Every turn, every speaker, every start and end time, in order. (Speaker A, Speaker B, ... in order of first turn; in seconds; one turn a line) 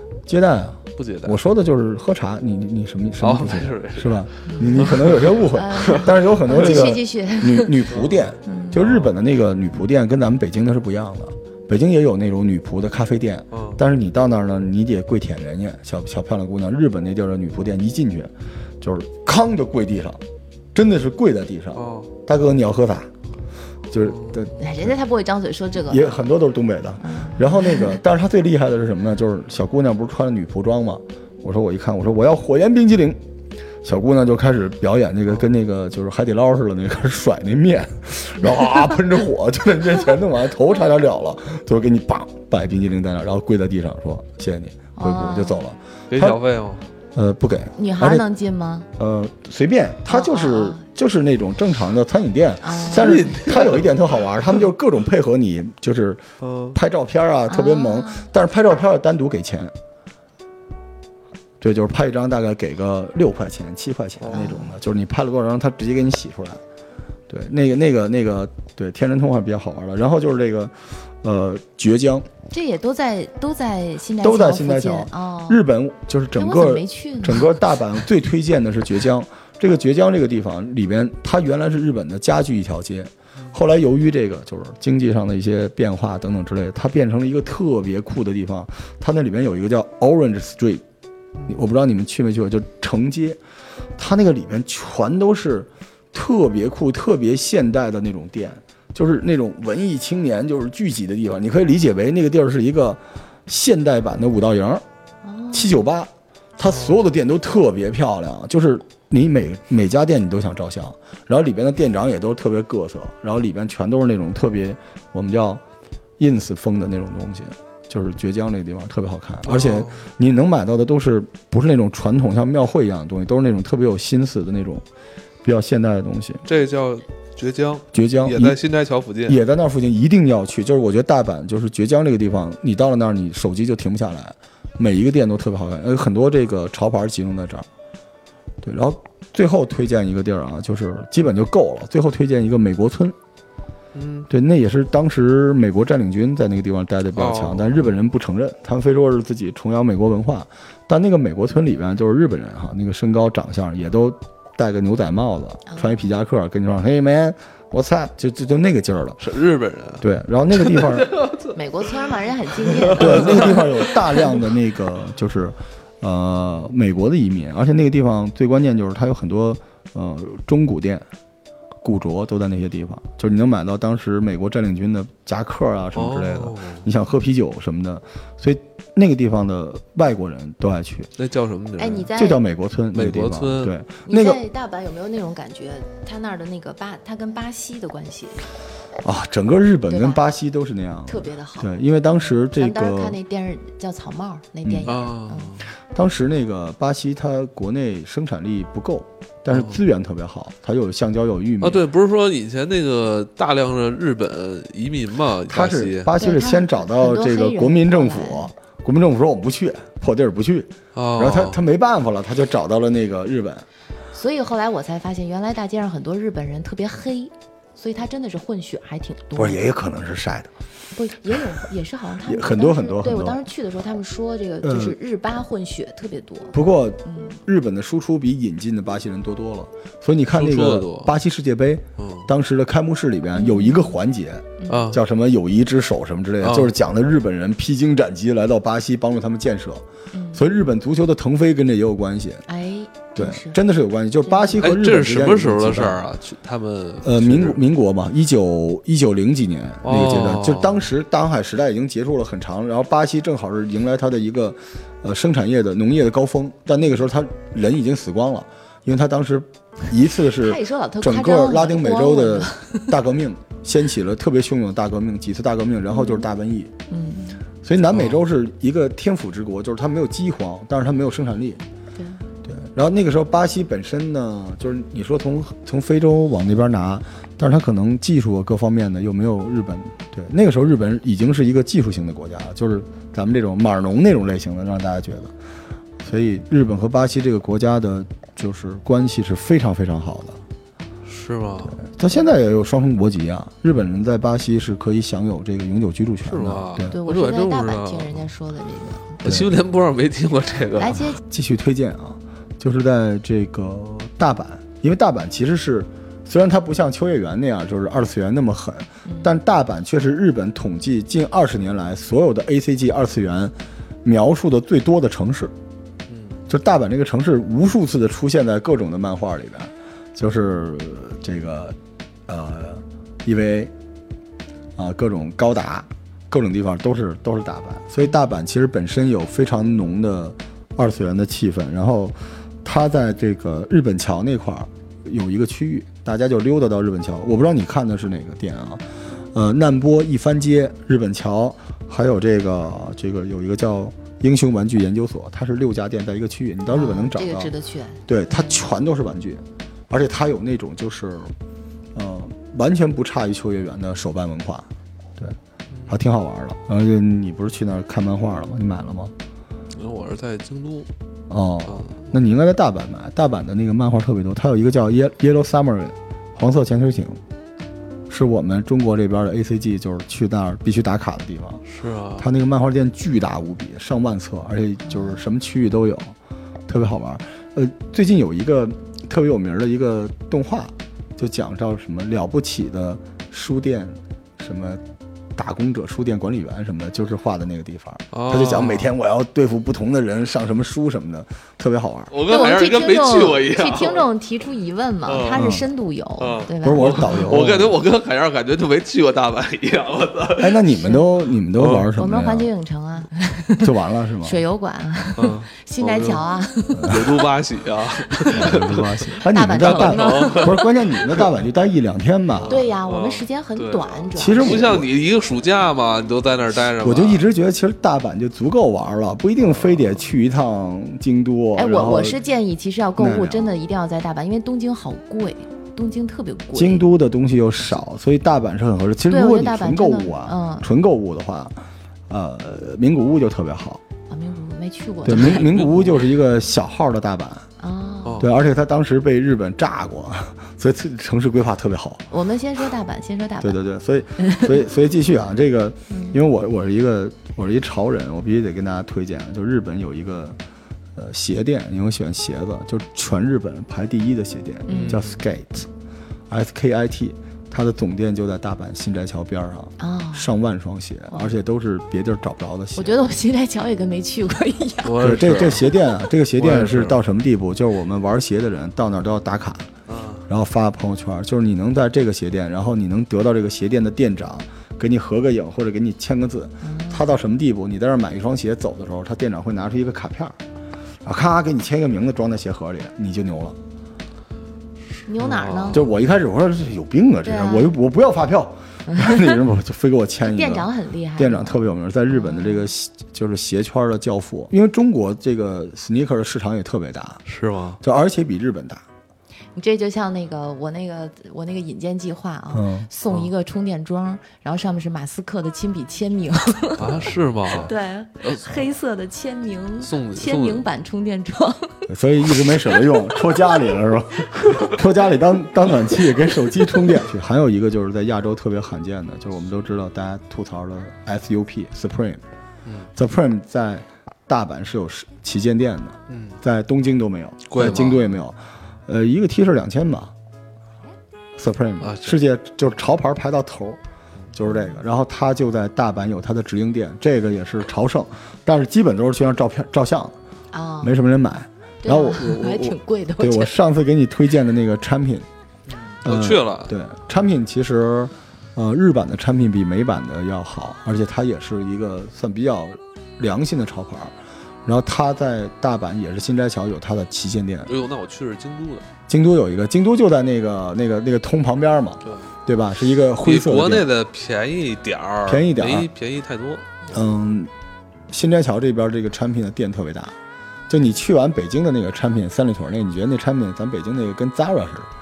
Speaker A: 0.3-20.2
Speaker B: 0.9-1.4
Speaker B: 3.2-6.9
Speaker C: 4.5-4.9
Speaker C: 5.5-7.8
Speaker B: 7.9-9.2
Speaker C: 8.4-8.8
Speaker B: 13.5-13.8
Speaker A: 20.7-23.1
Speaker B: 21.7-22.1
Speaker A: 23.9-24.9
Speaker B: 24.0-24.5
Speaker C: 24.6-26.2
Speaker A: 25.9-33.2
Speaker C: 27.0-28.0
Speaker A: 33.8-46.4
Speaker C: 45.0-45.7
Speaker B: 46.1-46.8
Speaker A: 47.1-48.2
Speaker C: 47.8-48.9
Speaker A: 49.0-59.7
Speaker C: 50.1-50.8
Speaker C: 52.6-53.2
Speaker B: 52.9-53.9
Speaker B: 56.4-56.8
Speaker C: 57.5-58.3
Speaker A: 61.6-66.6
Speaker B: 64.2-64.5
Speaker C: 64.3-64.8
Speaker A: 67.3-72.3
Speaker C: 72.5-75.6
Speaker A: 74.2-90.8
Speaker C: 76.3-77.5
Speaker A: 91.5-93.4
Speaker A: 94.0-104.8
Speaker C: 105.2-105.8
Speaker A: 105.5-115.6
Speaker B: 106.6-107.0
Speaker A: 116.2-124.8
Speaker B: 119.5-120.0
Speaker A: 125.4-126.4
Speaker B: 126.4-129.4
Speaker A: 127.9-128.6
Speaker A: 129.2-137.7
Speaker A: 138.6-143.1
Speaker B: 143.9-144.3
Speaker A: 144.3-159.2
Speaker B: 147.1-147.9
Speaker C: 155.7-156.1
Speaker B: 159.2-161.5
Speaker A: 160.0-161.1
Speaker C: 161.5-163.6
Speaker B: 162.8-163.7
Speaker A: 162.9-171.0
Speaker A: 171.8-181.1
Speaker B: 175.9-176.9
Speaker B: 181.2-182.1
Speaker C: 181.8-182.4
Speaker A: 182.1-184.4
Speaker B: 182.9-183.7
Speaker C: 184.1-188.4
Speaker A: 189.0-193.2
Speaker C: 189.9-190.2
Speaker C: 191.1-191.7
Speaker C: 192.5-195.5
Speaker A: 194.6-194.9
Speaker B: 194.9-195.6
Speaker A: 195.9-201.8
Speaker B: 199.5-199.8
Speaker B: 201.6-206.1
Speaker A: 205.5-213.7
Speaker C: 206.2-208.5
Speaker B: 210.9-211.6
Speaker C: 214.1-219.6
Speaker A: 219.3-220.5
Speaker C: 220.9-227.4
Speaker A: 222.2-223.4
Speaker A: 224.6-224.9
Speaker A: 226.5-242.4
Speaker B: 230.3-231.1
Speaker B: 232.0-232.3
Speaker C: 233.3-234.0
Speaker C: 234.6-234.9
Speaker B: 234.7-235.0
Speaker B: 236.4-236.7
Speaker C: 240.1-240.4
Speaker C: 242.5-243.6
Speaker A: 243.1-246.1
Speaker C: 244.2-244.7
Speaker B: 244.6-247.6
Speaker A: 247.0-266.7
Speaker B: 249.8-250.9
Speaker C: 260.4-262.9
Speaker C: 265.9-266.3
Speaker C: 266.9-267.4
Speaker A: 267.6-271.6
Speaker B: 267.9-268.2
Speaker C: 271.9-272.2
Speaker A: 272.4-285.3
Speaker A: 286.0-290.4
Speaker B: 291.0-291.8
Speaker A: 291.7-296.9
Speaker B: 296.2-298.3
Speaker C: 296.9-299.2
Speaker B: 299.2-301.0
Speaker A: 299.2-299.6
Speaker C: 300.8-301.2
Speaker A: 301.1-315.5
Speaker C: 309.0-309.3
Speaker B: 316.1-316.4
Speaker A: 316.5-323.7
Speaker A: 324.8-347.5
Speaker C: 346.7-348.6
Speaker A: 348.1-351.3
Speaker A: 351.9-355.4
Speaker B: 355.7-356.0
Speaker A: 355.9-359.1
Speaker B: 359.7-360.9
Speaker A: 361.3-367.2
Speaker B: 361.6-362.1
Speaker A: 368.1-371.6
Speaker B: 371.6-372.3
Speaker A: 372.2-376.1
Speaker C: 374.9-375.2
Speaker A: 376.7-384.8
Speaker A: 385.4-392.1
Speaker B: 388.1-388.9
Speaker B: 392.1-394.1
Speaker C: 392.2-397.4
Speaker B: 395.1-395.6
Speaker A: 395.3-395.6
Speaker B: 396.2-401.0
Speaker A: 396.6-397.8
Speaker A: 400.4-402.5
Speaker B: 401.6-401.9
Speaker C: 401.9-403.7
Speaker A: 403.6-404.4
Speaker C: 404.2-407.3
Speaker B: 405.1-406.2
Speaker A: 406.8-407.0
Speaker B: 406.8-411.4
Speaker C: 408.2-408.5
Speaker A: 408.3-412.6
Speaker C: 409.2-410.7
Speaker B: 412.3-417.2
Speaker C: 412.5-414.7
Speaker A: 414.1-414.9
Speaker A: 416.8-422.2
Speaker B: 419.4-420.0
Speaker C: 421.5-426.9
Speaker A: 423.0-423.5
Speaker A: 426.5-433.8
Speaker C: 429.1-430.7
Speaker C: 434.1-435.6
Speaker A: 435.0-437.5
Speaker B: 435.1-436.1
Speaker C: 437.6-438.3
Speaker B: 438.0-438.3
Speaker A: 438.2-442.0
Speaker C: 442.1-443.6
Speaker A: 443.4-450.4
Speaker C: 444.2-444.4
Speaker C: 445.9-446.2
Speaker A: 450.9-455.7
Speaker C: 454.7-455.0
Speaker B: 454.7-455.2
Speaker A: 456.3-463.0
Speaker C: 459.8-460.3
Speaker C: 461.1-461.4
Speaker C: 462.7-465.0
Speaker B: 464.8-465.7
Speaker A: 465.0-469.7
Speaker B: 466.3-467.0
Speaker B: 469.9-470.2
Speaker A: 470.3-480.4
Speaker C: 476.6-477.1
Speaker A: 481.0-483.6
Speaker C: 485.1-485.8
Speaker B: 485.2-485.9
Speaker A: 485.7-497.2
Speaker C: 487.2-487.8
Speaker C: 488.9-489.3
Speaker C: 490.2-492.7
Speaker B: 497.2-497.8
Speaker A: 497.8-498.8
Speaker C: 499.5-511.9
Speaker A: 502.5-502.9
Speaker B: 506.8-508.7
Speaker B: 509.8-510.6
Speaker A: 511.9-522.2
Speaker A: 522.9-530.1
Speaker B: 526.1-526.4
Speaker B: 527.5-528.0
Speaker C: 527.6-528.1
Speaker A: 531.4-533.8
Speaker B: 531.8-532.2
Speaker A: 534.3-540.1
Speaker C: 534.5-534.8
Speaker C: 540.5-541.0
Speaker A: 540.8-545.3
Speaker C: 541.8-543.5
Speaker B: 545.7-546.7
Speaker A: 546.0-554.1
Speaker A: 554.6-557.7
Speaker B: 557.7-558.8
Speaker A: 559.1-563.9
Speaker B: 563.2-567.0
Speaker A: 565.2-565.9
Speaker A: 566.9-567.5
Speaker A: 568.1-570.1
Speaker A: 570.7-574.9